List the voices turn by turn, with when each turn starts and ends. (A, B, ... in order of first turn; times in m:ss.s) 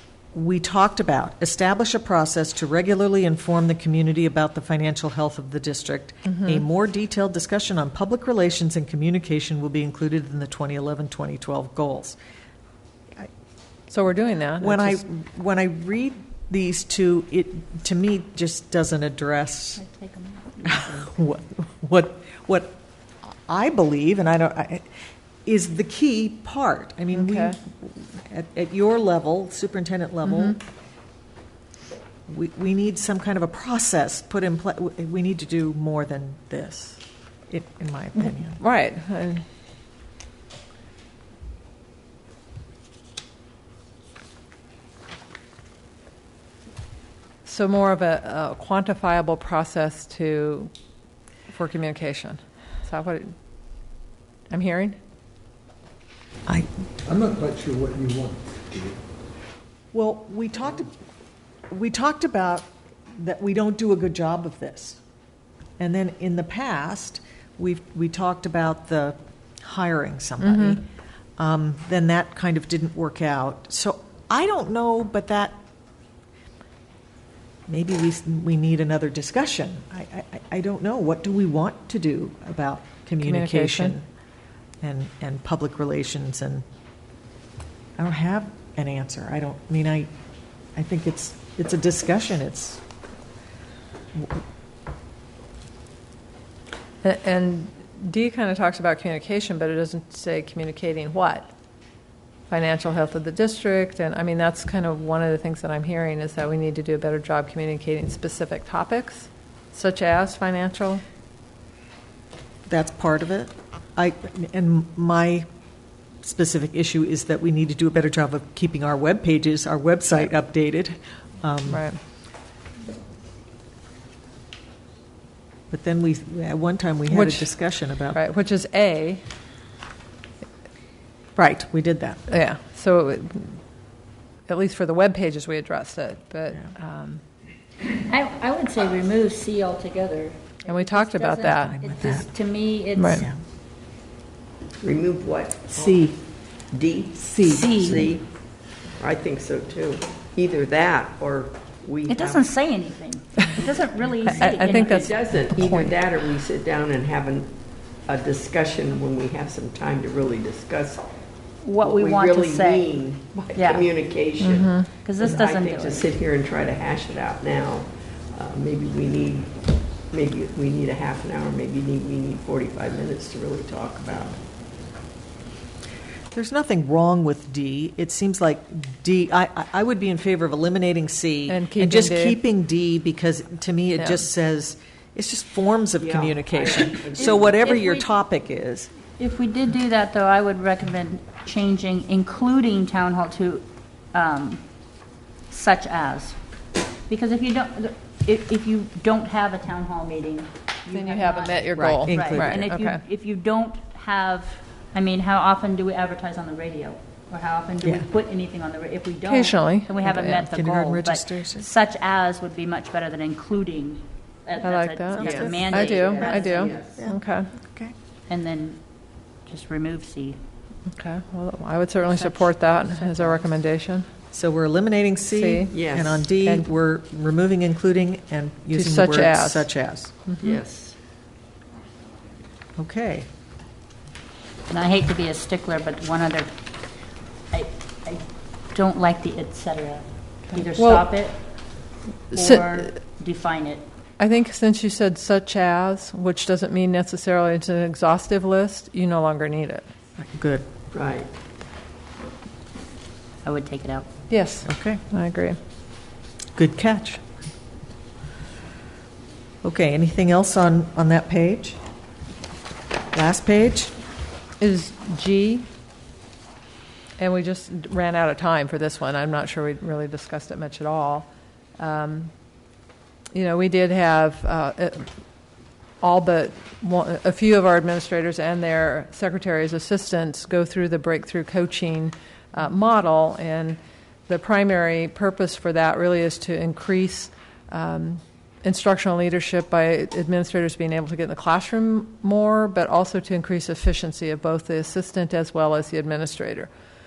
0:00.3-0:12.2 A
0:06.2-0:06.6 B
0:13.9-0:15.0 B
0:14.6-0:19.8 A
0:19.8-0:21.1 C
0:20.6-0:24.9 A
0:25.4-0:30.6 A
0:27.1-0:27.6 B
0:30.3-0:30.5 B
0:32.3-0:38.6 A
0:38.2-0:39.4 B
0:47.4-0:50.7 B
0:51.5-0:53.3 B
0:54.5-0:55.0 B
0:57.0-0:59.0 D
0:59.9-1:00.9 A
1:01.7-1:05.0 A
1:05.8-1:10.8 A
1:10.4-1:10.8 B
1:11.4-1:15.6 A
1:17.7-1:24.0 A
1:23.2-1:24.0 B
1:24.8-1:26.6 A
1:28.0-1:30.1 A
1:30.8-1:32.8 A
1:34.1-1:34.4 A
1:37.0-1:41.5 B
1:42.5-1:51.0 B
1:52.7-1:55.5 A
1:56.2-2:01.8 A
2:01.7-2:02.0 B
2:05.7-2:08.2 A
2:07.1-2:07.5 B
2:08.1-2:09.2 B
2:11.4-2:12.2 A
2:12.3-2:13.6 B
2:14.5-2:17.2 B
2:17.8-2:23.3 C
2:20.6-2:21.7 B
2:21.5-2:22.3 A
2:23.0-2:23.2 B
2:24.8-2:26.0 E
2:25.7-2:26.2 A
2:26.7-2:28.2 E
2:27.2-2:28.1 A
2:27.4-2:28.1 C
2:29.0-2:32.6 E
2:32.1-2:35.1 C
2:34.2-2:37.5 E
2:34.3-2:35.9 B
2:38.0-2:41.0 E
2:41.6-2:43.0 C
2:41.8-2:49.5 E
2:43.5-2:43.9 C
2:44.4-2:44.9 B
2:45.0-2:46.1 C
2:50.1-2:54.4 E
2:56.3-3:08.9 A
3:01.5-3:02.4 B
3:04.0-3:04.2 B
3:06.0-3:07.9 E
3:07.1-3:08.1 C
3:09.2-3:14.6 C
3:15.5-3:16.4 C
3:17.1-3:36.9 C
3:20.9-3:23.0 B
3:21.8-3:22.7 A
3:27.8-3:28.1 A
3:29.2-3:30.4 B
3:30.0-3:31.7 A
3:34.6-3:37.5 B
3:35.2-3:35.6 A
3:35.2-3:37.0 E
3:37.0-3:37.9 A
3:38.3-3:38.8 C
3:39.4-3:40.4 C
3:40.9-3:44.1 B
3:42.1-3:43.4 C
3:44.3-3:50.1 A
3:45.3-3:45.8 B
3:45.7-3:46.3 E
3:46.4-3:46.7 B
3:48.7-3:49.7 B
3:50.3-3:50.5 B
3:50.4-3:51.0 E
3:52.8-3:53.3 A
3:54.7-3:56.5 C
3:57.5-4:01.4 C
4:00.5-4:01.1 B
4:02.3-4:03.8 C
4:02.4-4:02.9 B
4:04.2-4:09.9 B
4:10.2-4:10.6 A
4:10.9-4:11.3 E
4:13.4-4:14.1 C
4:14.3-4:15.6 B
4:14.6-4:15.0 A
4:16.6-4:17.2 A
4:19.6-4:21.8 A
4:23.1-4:23.9 A
4:24.6-4:25.7 B
4:27.2-4:32.3 B
4:33.3-4:35.1 B
4:36.0-4:56.7 B